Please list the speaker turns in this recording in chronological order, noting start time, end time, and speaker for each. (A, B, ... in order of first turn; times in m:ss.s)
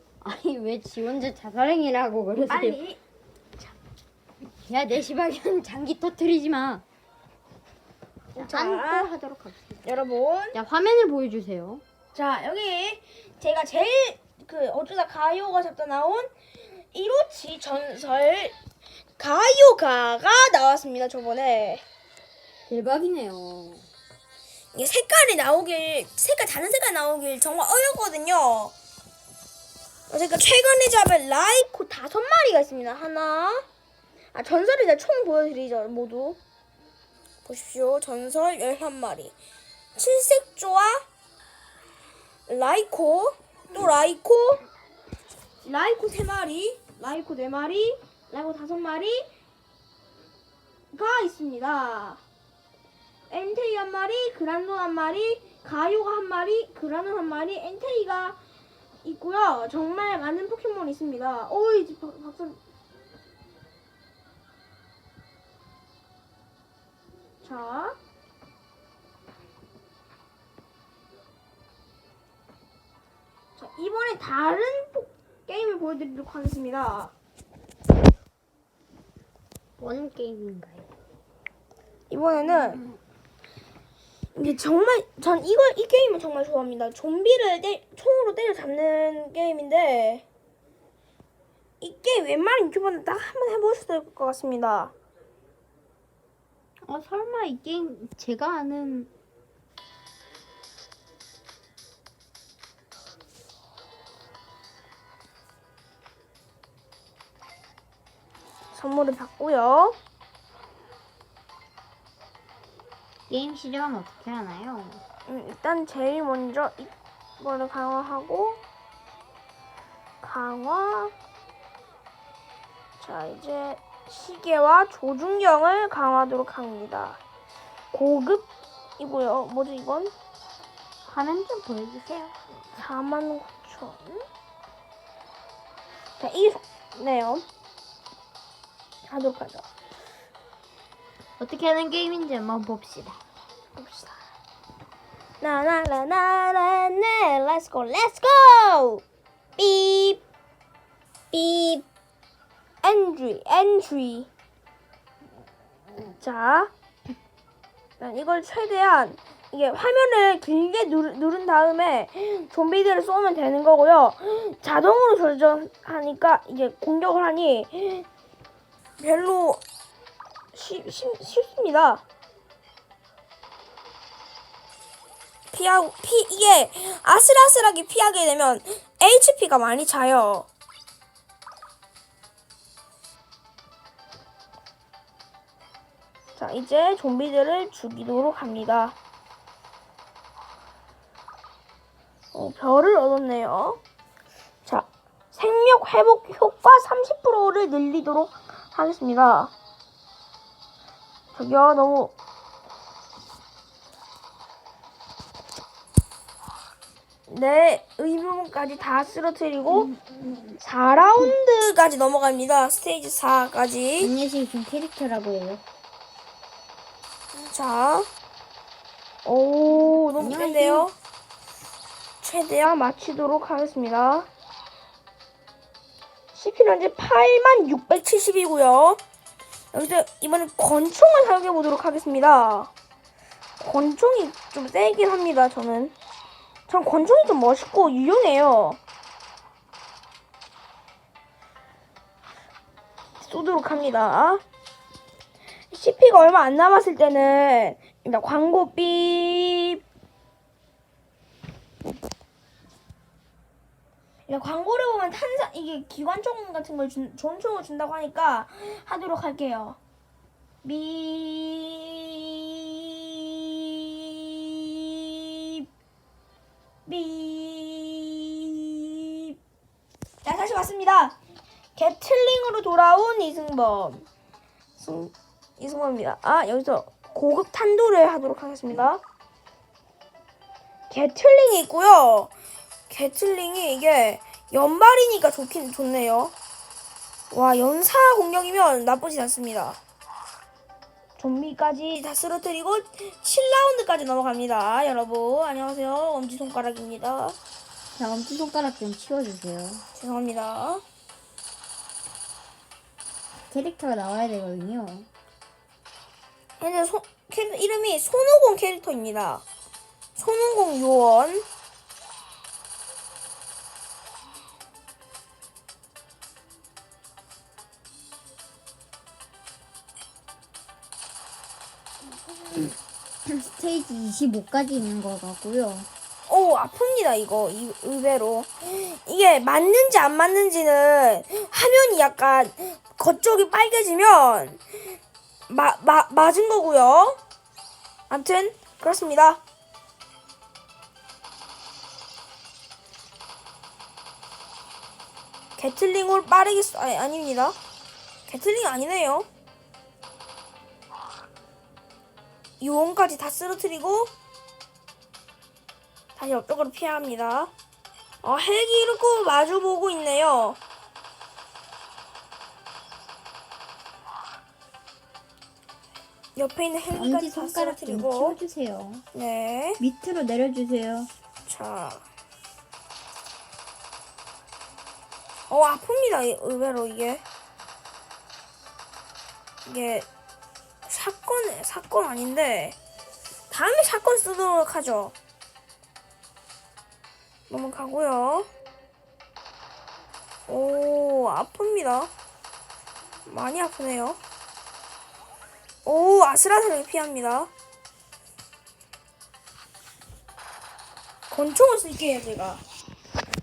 0:00.2-0:02.8 A
0:02.4-0:03.0 B
0:04.7-0:06.8 A
0:08.3-0:09.1 B
0:08.4-0:09.8 A
0:09.8-0:10.6 B
0:10.5-0:11.8 A
0:12.1-0:16.3 B
0:16.9-0:18.6 B
0:19.2-0:21.8 B
0:22.7-0:23.9 A
0:24.7-0:28.7 B
0:30.1-0:33.6 B
0:34.3-0:36.4 B
0:37.4-0:39.3 B
0:39.9-0:41.0 B
0:42.5-0:44.6 B
0:45.6-0:49.3 B
0:50.9-0:52.2 B
0:53.3-0:58.4 B
0:59.0-1:02.6 B
1:07.4-1:08.0 B
1:13.6-1:17.1 B
1:19.8-1:20.9 A
1:22.1-1:22.8 B
1:24.3-1:30.2 B
1:31.8-1:34.9 B
1:36.8-1:39.1 A
1:48.7-1:50.0 B
1:53.3-1:55.0 A
1:55.3-1:58.6 B
2:00.2-2:01.1 B
2:03.0-2:07.2 B
2:07.9-2:08.5 B
2:09.0-2:10.1 B
2:11.0-2:12.4 A
2:12.7-2:14.2 B
2:16.2-2:17.4 B
2:19.0-2:19.6 B
2:21.4-2:23.2 A
2:23.7-2:24.2 B
2:25.4-2:29.0 B
2:29.6-2:30.2 B
2:31.3-2:31.8 B
2:32.8-2:34.3 B
2:36.2-2:36.7 B
2:38.0-2:48.0 B
2:49.0-2:49.6 B
2:50.5-2:52.0 B
2:55.5-3:00.5 B
3:06.4-3:09.0 B
3:12.3-3:13.8 B
3:14.6-3:19.5 B
3:21.3-3:22.1 B
3:27.3-3:29.9 B
3:30.6-3:34.1 B
3:34.0-3:35.6 A
3:37.4-3:38.1 B
3:39.2-3:40.9 B
3:40.2-3:40.9 A
3:42.2-3:44.3 B
3:46.3-3:49.0 B
3:49.7-3:52.7 B
3:53.6-3:55.9 B
3:56.7-3:58.8 B
4:03.2-4:04.4 B
4:05.7-4:09.8 B
4:14.3-4:19.8 B
4:20.6-4:25.7 B
4:26.8-4:29.4 B
4:30.2-4:31.2 B
4:31.8-4:34.0 B
4:34.8-4:39.0 B
4:40.9-4:42.3 B
4:42.9-4:46.3 B
4:47.3-4:49.8 B
4:51.2-4:57.4 B
4:58.0-4:59.8 A
4:59.9-5:00.8 B
5:03.5-5:05.1 A
5:06.6-5:09.4 B
5:10.2-5:11.4 B
5:23.2-5:25.9 A
5:26.3-5:34.6 B
5:35.5-5:37.2 B
5:38.1-5:39.4 B
5:45.6-5:47.6 B
5:48.3-5:49.3 B
5:52.6-5:54.1 B
5:56.2-5:57.5 B
5:58.2-6:00.6 B
6:06.4-6:08.4 B
6:06.9-6:09.0 A
6:09.1-6:09.8 B
6:09.8-6:11.1 A
6:11.4-6:12.0 B
6:15.5-6:17.2 B
6:19.6-6:20.1 B
6:20.8-6:22.8 B
6:23.5-6:25.1 B
6:27.5-6:28.5 B
6:30.5-6:32.1 B
6:33.3-6:34.2 B
6:35.8-6:37.5 B
6:41.3-6:42.6 B